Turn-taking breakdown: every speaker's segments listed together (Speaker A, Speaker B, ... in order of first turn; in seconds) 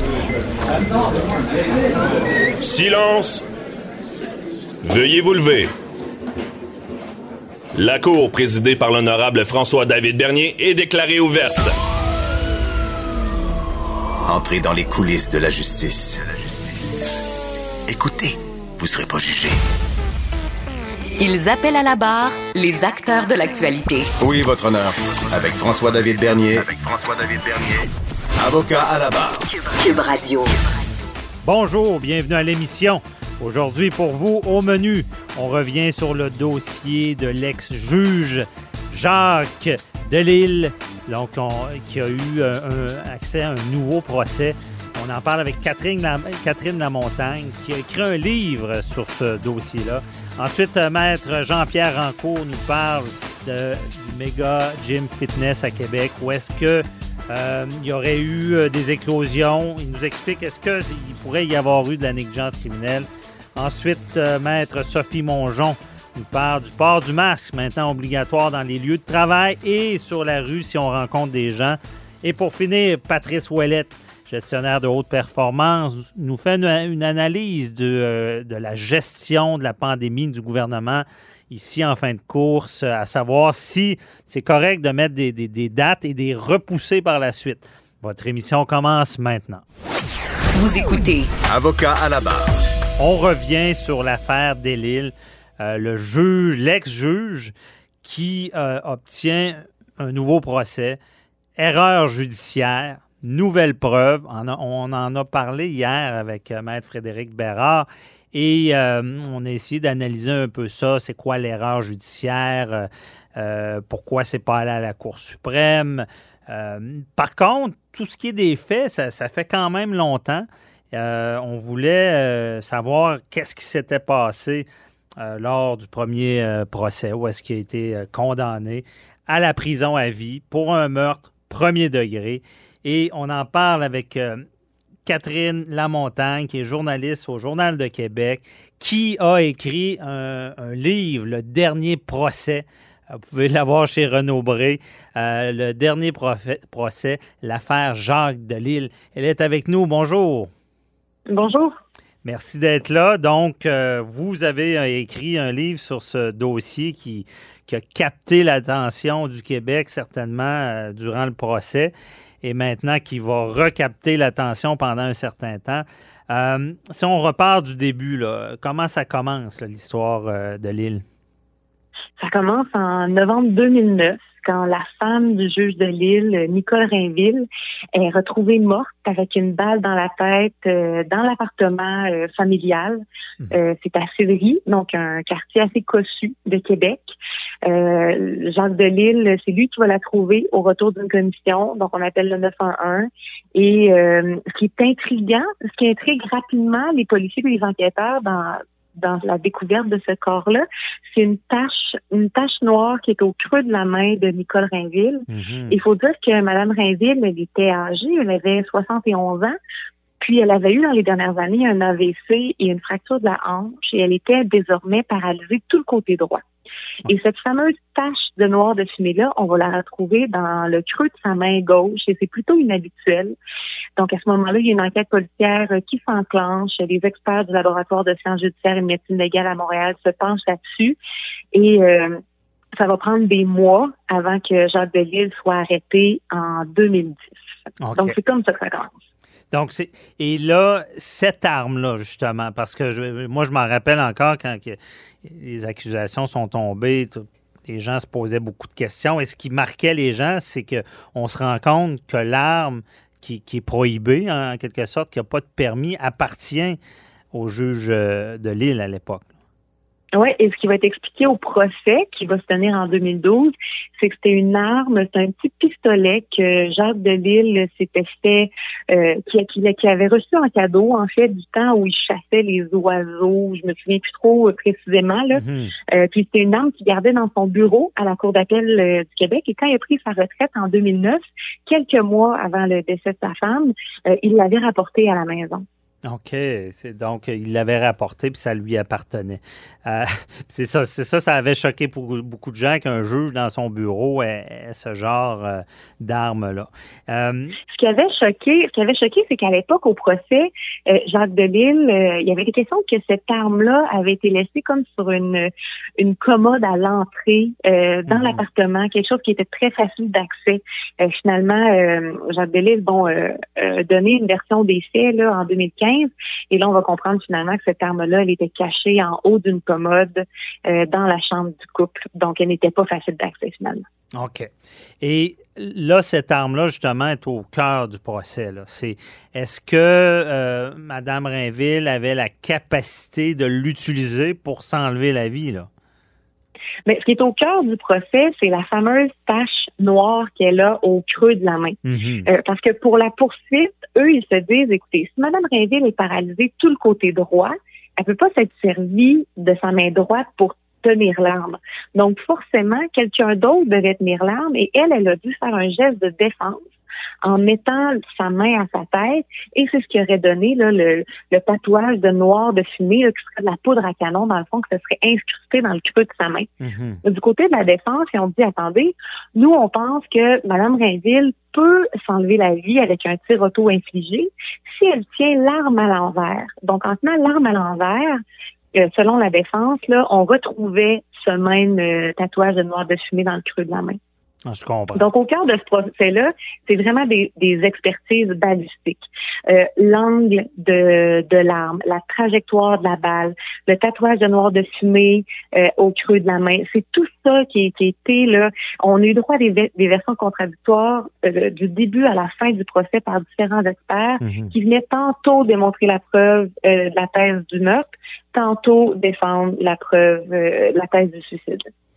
Speaker A: 2.6-3.4, 4.8-5.7, 7.8-11.7
Speaker B: 14.3-17.0, 17.9-19.6, 24.2-29.4, 91.5-92.5
Speaker C: 21.2-24.1, 29.7-30.6, 90.5-91.3
Speaker D: 31.4-89.6, 93.0-101.0, 101.6-124.7, 125.2-134.4, 135.1-150.5, 152.2-161.9, 162.4-171.0, 205.3-205.8, 237.8-238.2, 239.5-256.8, 257.3-259.3, 275.3-275.8, 286.0-297.6, 308.1-308.4, 324.1-324.5, 325.0-335.7, 341.9-342.3, 366.6-367.0, 384.5-385.1, 404.2-404.5
Speaker E: 151.3-151.8, 172.2-187.2, 187.7-209.5, 210.2-216.4, 217.1-223.4, 224.0-231.0, 231.5-232.2, 232.8-237.2, 237.9-238.9, 260.1-285.6, 297.7-323.9, 336.9-356.7, 357.2-366.5, 367.0-378.2, 378.8-384.0, 384.9-411.6